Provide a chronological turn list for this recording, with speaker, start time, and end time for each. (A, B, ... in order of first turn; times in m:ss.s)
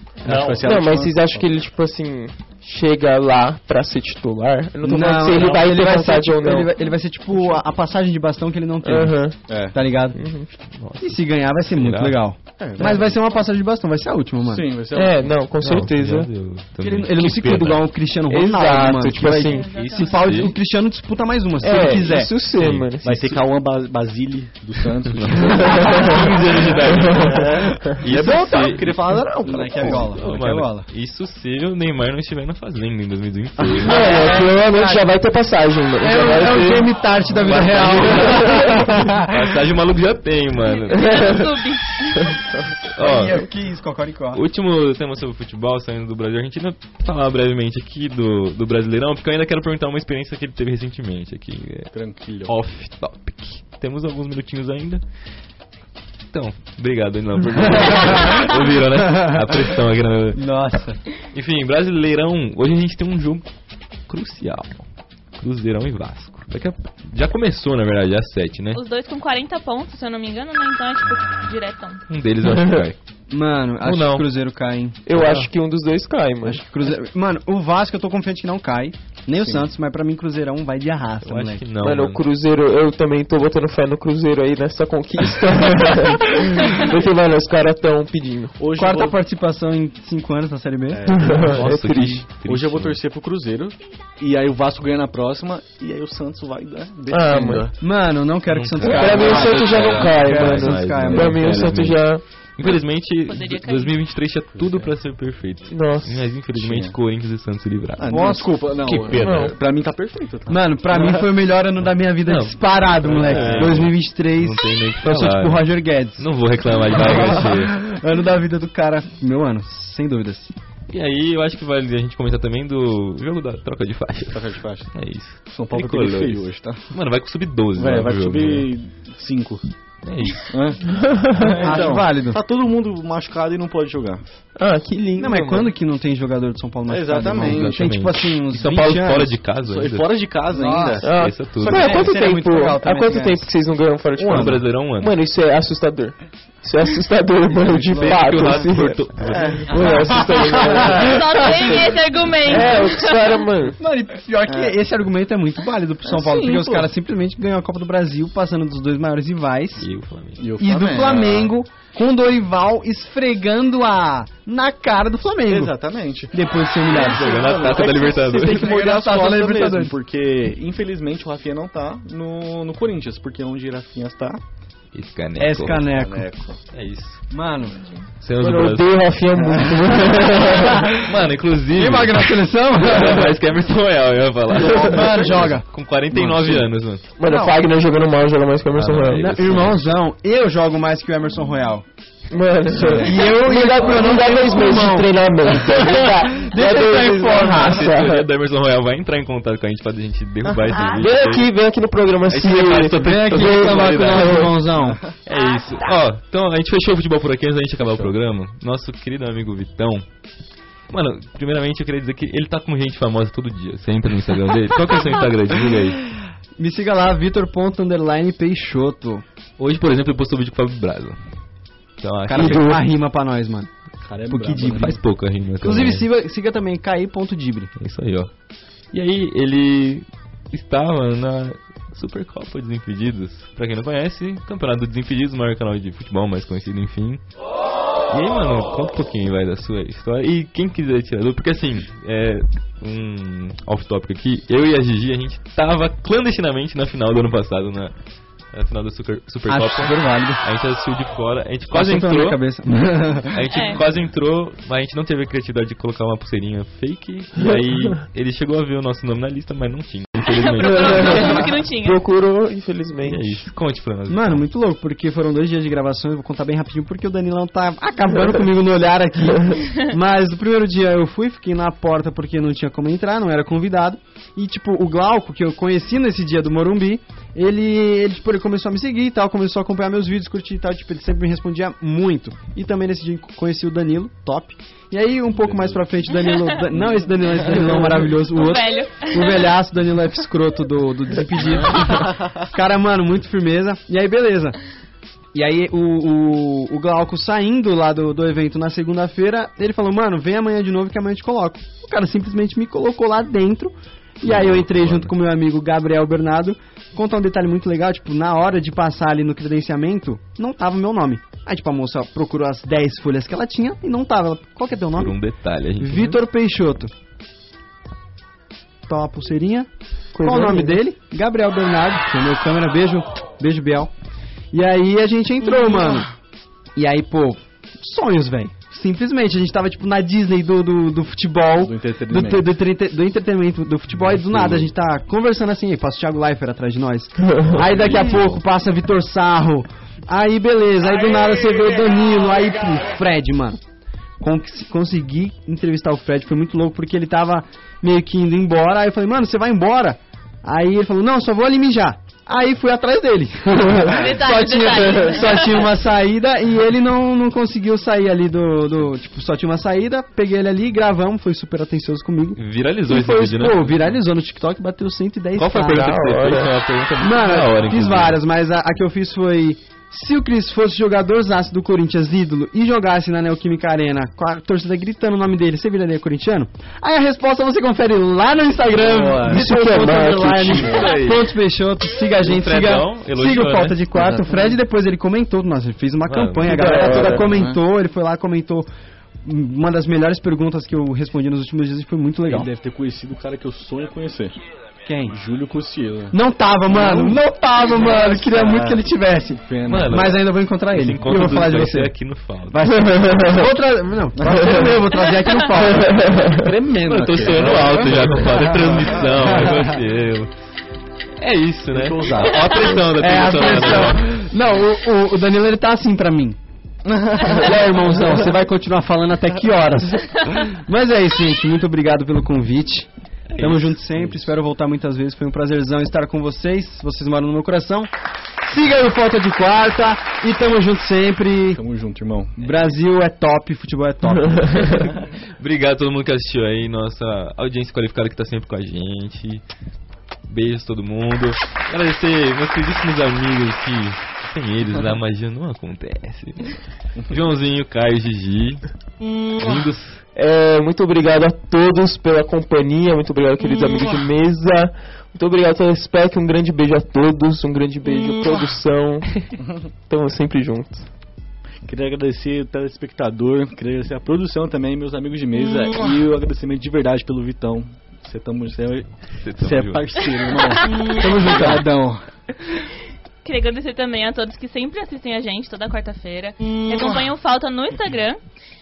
0:00.2-0:01.5 A
0:00.3-0:06.7 B
0:04.8-0:09.2 C
0:08.8-0:09.4 B
0:09.5-0:09.8 A
0:09.7-0:10.2 C
0:10.1-0:10.5 B
0:10.7-0:12.2 D
0:11.0-0:14.6 C
0:12.6-0:13.2 A
0:14.4-0:15.3 A
0:14.9-0:16.3 B
0:15.6-0:17.8 D
0:16.8-0:22.3 C
0:18.3-0:19.7 B
0:19.4-0:20.6 E
0:19.7-0:20.6 D
0:21.6-0:23.4 B
0:22.6-0:22.9 D
0:23.0-0:26.2 A
0:25.1-0:34.0 D
0:25.6-0:26.2 B
0:26.8-0:27.4 B
0:27.1-0:30.4 A
0:28.1-0:30.9 C
0:33.8-0:35.1 C
0:33.8-0:36.9 B
0:36.0-0:39.5 C
0:37.4-0:41.5 D
0:37.7-0:38.8 B
0:40.6-0:42.4 E
0:42.9-0:43.5 D
0:43.0-0:44.4 C
0:44.3-0:51.9 D
0:51.9-0:52.5 A
0:52.5-0:55.0 D
0:56.3-1:00.5 D
1:00.4-1:01.0 C
1:01.3-1:03.5 D
1:04.1-1:04.8 D
1:05.4-1:08.8 D
1:08.7-1:12.0 E
1:12.1-1:13.0 D
1:12.6-1:12.8 B
1:13.3-1:15.1 C
1:13.8-1:14.3 D
1:15.1-1:16.6 B
1:16.4-1:21.6 C
1:19.4-1:19.6 A
1:21.2-1:22.2 D
1:21.8-1:28.6 B
1:28.6-1:29.2 A
1:28.8-1:31.1 C
1:30.9-1:37.8 A
1:31.1-1:32.2 B
1:31.4-1:33.0 D
1:37.1-1:37.7 B
1:37.8-1:41.7 C
1:38.5-1:49.5 D
1:38.9-1:42.2 B
1:43.2-1:44.0 E
1:44.6-1:44.9 A
1:45.7-1:46.1 B
1:46.6-1:47.0 A
1:48.0-1:51.1 A
1:48.1-1:48.5 C
1:49.1-1:49.5 B
1:50.5-1:56.3 C
1:52.2-1:55.6 D
1:53.1-1:53.8 A
1:56.2-1:57.8 D
1:56.9-2:00.5 C
2:00.9-2:08.7 D
2:04.3-2:04.9 A
2:05.4-2:06.9 A
2:07.8-2:09.7 A
2:10.0-2:10.8 D
2:10.5-2:14.2 A
2:10.9-2:11.5 B
2:11.6-2:12.4 C
2:14.6-2:15.7 B
2:15.2-2:19.4 C
2:16.9-2:17.8 A
2:17.4-2:20.1 D
2:19.6-2:21.1 A
2:20.5-2:21.0 C
2:21.0-2:29.1 B
2:21.2-2:22.1 D
2:21.6-2:23.5 C
2:24.2-2:24.6 A
2:24.3-2:25.1 D
2:27.9-2:28.2 C
2:27.9-2:29.7 D
2:29.3-2:31.7 A
2:29.6-2:31.8 B
2:31.0-2:33.4 E
2:32.5-2:33.8 B
2:33.8-2:39.9 C
2:34.5-2:34.8 A
2:36.0-2:36.9 A
2:39.8-2:40.4 D
2:40.4-2:41.5 A
2:40.6-2:45.7 C
2:45.5-2:46.3 A
2:46.3-2:50.0 C
2:46.9-2:54.4 A
2:46.9-2:48.7 D
2:54.9-2:55.9 D
2:55.4-2:56.3 C
2:55.9-2:56.6 A
2:56.7-2:57.2 D
2:57.3-2:57.8 C
2:58.2-2:59.0 D
2:58.4-3:00.8 B
3:00.1-3:01.1 C
3:01.0-3:07.0 D
3:01.7-3:03.3 C
3:04.6-3:05.7 C
3:06.1-3:06.6 A
3:07.2-3:09.2 B
3:08.8-3:09.8 D
3:09.1-3:11.8 C
3:12.3-3:18.3 B
3:12.7-3:13.1 A
3:12.9-3:17.9 C
3:17.3-3:21.5 D
3:20.9-3:24.5 B
3:22.3-3:24.5 D
3:23.0-3:25.0 C
3:25.3-3:30.0 D
3:25.3-3:25.9 E
3:27.8-3:28.1 A
3:30.9-3:36.0 D
3:36.6-3:39.2 C
3:39.6-3:41.2 D
3:42.0-3:42.7 D
3:42.3-3:43.7 C
3:42.4-3:42.8 B
3:44.0-3:45.0 A
3:44.3-3:45.0 C
3:44.5-3:46.1 D
3:45.6-3:47.7 C
3:47.8-3:48.3 D
3:48.9-3:57.2 D
3:58.1-4:07.9 D
4:08.5-4:12.4 D
4:09.5-4:10.4 C
4:11.7-4:13.4 C
4:13.3-4:21.5 D
4:13.5-4:13.8 E
4:20.2-4:22.0 E
4:20.6-4:23.4 B
4:23.0-4:24.4 D
4:24.1-4:54.6 C
4:45.4-4:45.8 A
4:46.8-4:48.3 A
4:48.3-4:49.5 E
4:55.3-5:15.2 C
5:04.2-5:05.1 D
5:14.9-5:16.2 D
5:15.8-5:16.9 C
5:18.9-5:19.7 C
5:20.1-5:20.8 B
5:20.2-5:23.9 C
5:24.5-5:26.1 C
5:26.8-5:43.6 C
5:31.6-5:32.4 A
5:34.3-5:34.6 A
5:37.2-5:37.5 B
5:37.5-5:38.2 A
5:44.2-6:06.1 C
5:53.9-5:55.6 E
6:02.4-6:03.9 D
6:05.4-6:08.2 D
6:05.7-6:06.5 B
6:07.0-6:28.7 C
6:18.8-6:19.4 A
6:19.2-6:20.9 B
6:20.7-6:21.3 D
6:22.2-6:23.9 D
6:26.1-6:26.7 D
6:26.4-6:27.3 B
6:27.1-6:27.6 A
6:29.2-6:32.5 C
6:32.3-6:34.4 A
6:34.9-6:35.2 C
6:35.1-6:36.2 A
6:36.1-6:41.9 C
6:36.7-6:38.8 A
6:39.4-6:40.0 A
6:39.7-6:42.6 D
6:42.5-6:46.0 C
6:42.8-6:43.4 B
6:44.2-6:44.6 A
6:45.6-6:46.4 B
6:46.3-6:49.7 A
6:46.8-6:50.3 D
6:51.2-6:54.0 D
6:51.7-6:52.7 A
6:52.8-6:56.4 C
6:56.9-6:57.6 A
6:57.2-7:07.9 C
7:03.4-7:03.7 D
7:04.0-7:04.2 A
7:08.4-7:11.6 C
7:11.5-7:12.5 A
7:12.4-7:14.8 C
7:14.3-7:14.8 B
7:15.4-7:19.4 D
7:20.3-7:28.6 D
7:29.4-7:30.0 D
7:30.2-7:39.2 B
7:39.9-7:40.9 B
7:41.6-7:51.8 A
7:49.2-7:50.0 D
7:50.6-7:51.0 E
7:50.9-7:52.0 C
7:53.2-7:58.2 E